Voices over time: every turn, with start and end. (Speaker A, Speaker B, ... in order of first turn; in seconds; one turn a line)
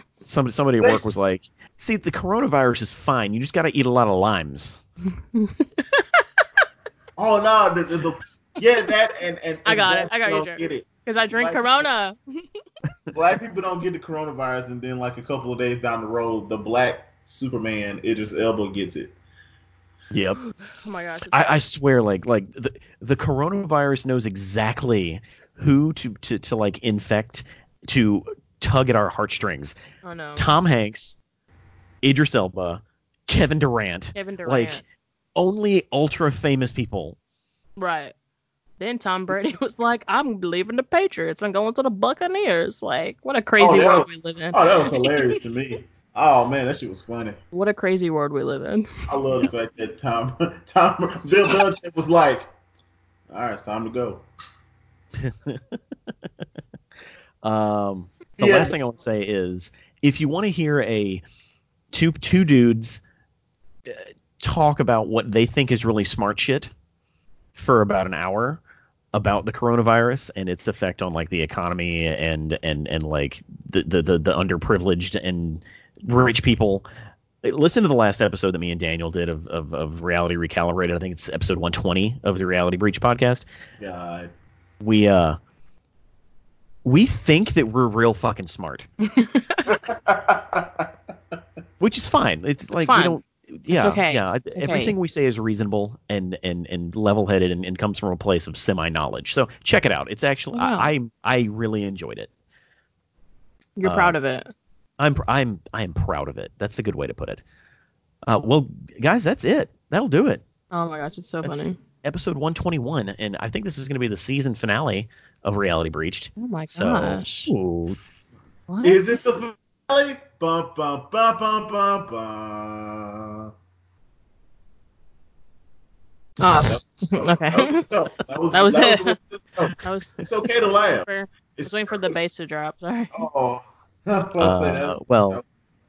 Speaker A: 0.2-4.8
Speaker B: 0.8-1.1
Speaker C: 5.3-6.2
Speaker B: 7.2-11.9
Speaker C: 9.7-12.4
Speaker B: 13.1-19.1
Speaker A: 20.1-20.4
Speaker C: 20.7-21.6
Speaker A: 21.3-29.8
Speaker C: 30.0-30.6
Speaker A: 30.4-31.2
Speaker A: 32.0-34.8
Speaker C: 34.1-34.8
Speaker A: 35.4-37.2
Speaker C: 37.8-38.1
Speaker C: 38.8-45.3
Speaker B: 43.6-47.4
Speaker C: 47.5-48.9
Speaker B: 49.1-52.5
Speaker B: 53.3-54.2
Speaker A: 55.2-55.8
Speaker A: 57.4-61.2
Speaker B: 58.4-58.8
Speaker A: 61.9-63.0
Speaker A: 63.9-66.7
Speaker A: 67.5-68.6
Speaker A: 69.1-76.8
Speaker A: 77.4-83.5
Speaker B: 83.8-84.3
Speaker A: 84.8-85.4
Speaker A: 86.8-88.9
Speaker C: 89.0-89.8
Speaker B: 89.7-90.9
Speaker A: 91.8-102.3
Speaker C: 92.7-93.2
Speaker C: 93.7-94.9
Speaker C: 100.5-100.9
Speaker C: 103.8-104.5
Speaker A: 103.8-104.2
Speaker A: 105.0-107.4
Speaker A: 108.2-110.4
Speaker C: 110.7-111.8
Speaker A: 111.4-118.0
Speaker C: 116.4-117.5
Speaker C: 118.7-119.2
Speaker B: 118.8-123.5
Speaker C: 126.4-127.8
Speaker B: 126.5-132.1
Speaker C: 128.5-129.2
Speaker C: 129.8-130.1
Speaker C: 130.9-133.2
Speaker B: 133.1-135.4
Speaker A: 134.4-135.4